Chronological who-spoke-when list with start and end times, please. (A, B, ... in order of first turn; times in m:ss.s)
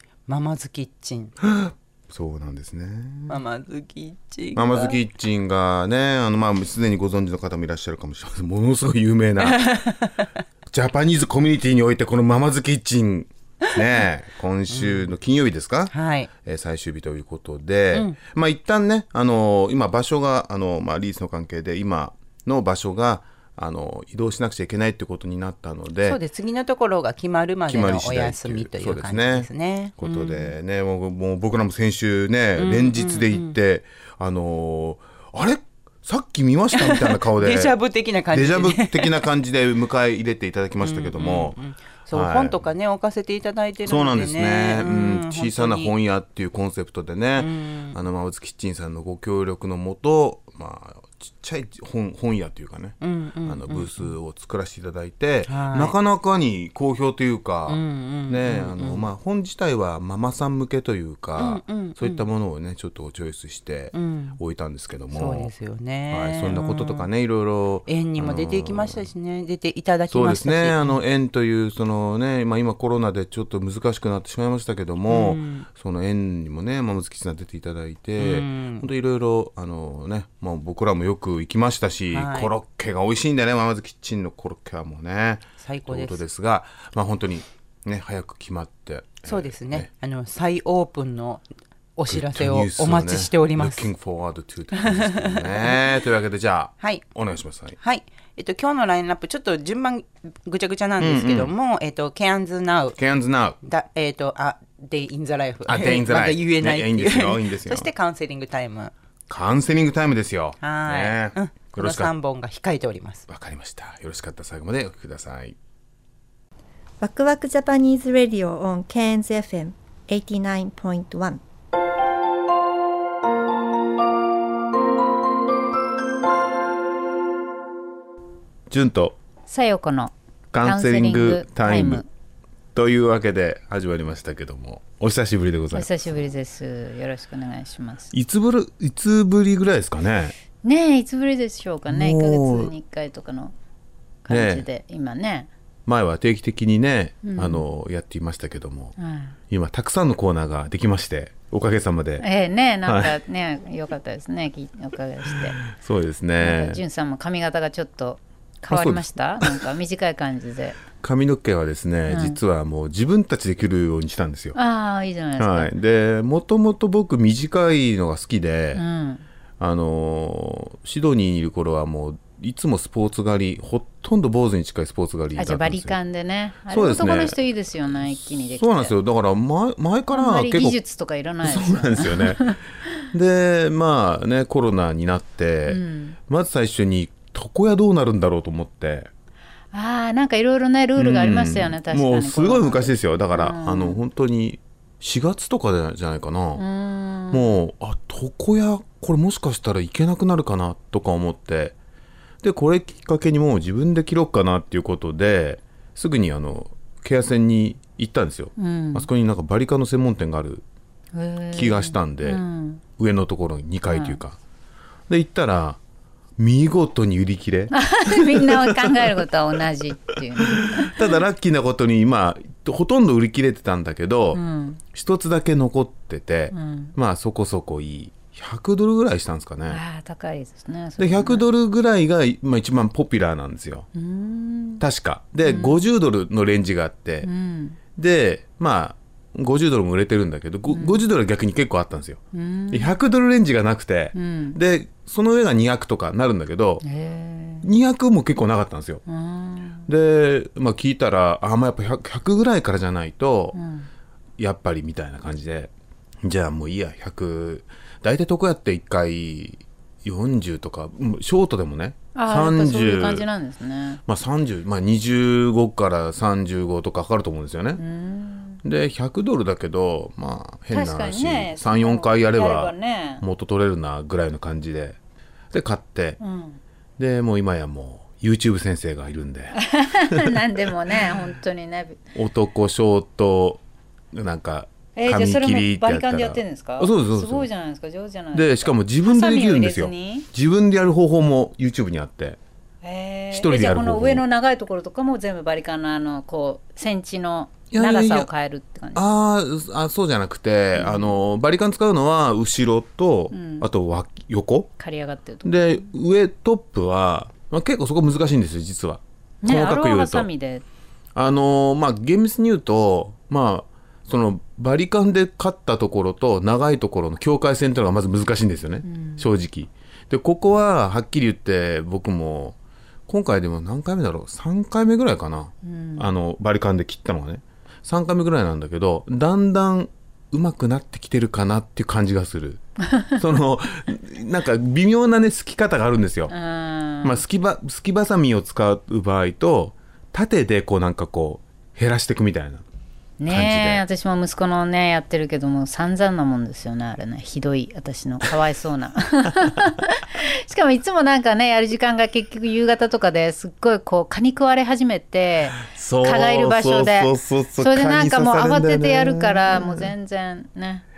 0:00.3-0:01.3 A
0:01.4-0:03.4 B
0:03.3-0:05.0 A
0:04.6-0:09.7 B
0:09.4-0:10.2 A
0:10.7-0:26.2 B
0:14.7-0:15.1 A
0:15.9-0:16.3 A
0:26.0-0:30.5 A
0:27.7-0:37.8 B
0:32.6-0:33.6 A
0:36.8-0:39.3 A
0:38.3-0:41.6 B
0:40.8-0:45.9 A
0:42.1-0:42.6 B
0:43.8-1:05.5 B
0:47.4-0:48.0 A
0:53.0-0:54.1 A
0:55.5-0:55.9 A
0:57.7-0:59.1 A
1:01.4-1:02.2 A
1:03.9-1:04.4 A
1:05.1-1:07.1 A
1:06.1-1:09.0 B
1:07.9-1:11.0 A
1:10.1-1:29.9 B
1:15.1-1:15.7 A
1:18.2-1:18.9 A
1:22.1-1:22.5 A
1:25.6-1:26.2 A
1:29.2-1:33.9 A
1:32.1-1:37.8 B
1:34.7-1:35.8 A
1:37.8-1:43.0 A
1:41.0-1:41.5 B
1:43.0-1:43.6 B
1:43.6-1:48.9 A
1:45.7-1:47.9 B
1:49.3-1:52.1 B
1:50.6-1:53.2 A
1:53.3-1:55.6 B
1:57.0-2:01.4 C
2:08.7-2:09.2 B
2:09.5-2:12.1 D
2:10.5-2:12.0 B
2:12.7-2:16.2 B
2:15.7-2:18.1 D
2:18.1-2:20.4 B
2:20.6-2:23.5 D
2:21.9-2:22.7 B
2:24.2-2:25.5 D
2:24.3-2:24.6 B
2:25.9-2:29.0 B
2:27.2-2:27.6 D
2:29.0-2:29.4 D
2:29.5-2:32.2 B
2:32.2-2:35.6 D
2:32.9-2:33.2 B
2:35.4-2:36.8 B
2:36.4-2:40.8 D
2:38.7-2:39.7 B
2:41.0-2:44.6 B
2:42.1-2:42.4 D
2:44.6-2:45.7 D
2:45.4-2:48.8 B
2:48.8-2:49.2 D
2:49.6-2:56.0 B
2:55.4-2:59.0 D
2:56.7-3:00.8 B
3:00.1-3:02.6 D
3:01.4-3:02.5 B
3:03.1-3:09.1 B
3:05.7-3:06.2 D
3:09.7-3:14.0 D
3:11.0-3:16.6 B
3:16.6-3:17.6 D
3:17.3-3:21.8 B
3:22.4-3:30.6 B
3:28.6-3:29.1 D
3:31.1-3:32.8 D
3:31.5-3:32.4 B
3:33.0-3:34.4 B
3:33.9-3:34.2 D
3:35.1-3:35.8 B
3:36.4-3:39.3 B
3:37.7-3:41.0 D
3:40.4-3:44.4 B
3:44.3-3:44.8 D
3:44.9-3:49.8 B
3:46.5-3:47.0 D
3:49.7-3:51.5 D
3:51.0-3:53.9 B
3:54.0-3:54.8 D
3:54.8-3:57.3 B
3:55.4-3:55.9 D
3:57.2-3:57.8 D
3:58.0-4:02.2 B
4:00.7-4:01.0 D
4:02.3-4:02.9 D
4:02.7-4:06.8 B
4:04.1-4:04.6 D
4:06.8-4:07.7 D
4:07.6-4:09.0 B
4:09.1-4:09.9 D
4:09.9-4:13.6 B
4:13.5-4:13.9 D
4:14.4-4:15.7 B
4:16.2-4:23.3 B
4:22.2-4:24.0 D
4:24.1-4:27.8 B
4:27.8-4:28.6 D
4:28.6-4:35.0 B
4:30.7-4:33.2 D
4:35.5-4:36.2 B
4:36.2-4:36.6 D
4:37.0-4:40.4 B
4:39.6-4:42.0 D
4:42.2-4:47.5 B
4:45.0-4:50.3 D
4:48.3-4:52.4 B
4:52.8-4:59.0 D
4:53.3-4:54.2 B
4:57.7-4:58.3 B
4:59.0-5:04.7 B
5:00.8-5:01.2 D
5:03.3-5:03.7 D
5:04.8-5:05.9 D
5:05.4-5:10.3 B
5:09.4-5:10.6 D
5:11.2-5:22.6 B
5:18.8-5:19.3 D
5:23.1-5:32.6 B
5:25.6-5:26.1 D
5:33.2-5:36.3 B
5:36.3-5:37.2 D
5:37.0-5:42.6 B
5:43.2-6:00.8 D
5:43.3-5:43.8 B
5:55.7-5:59.9 B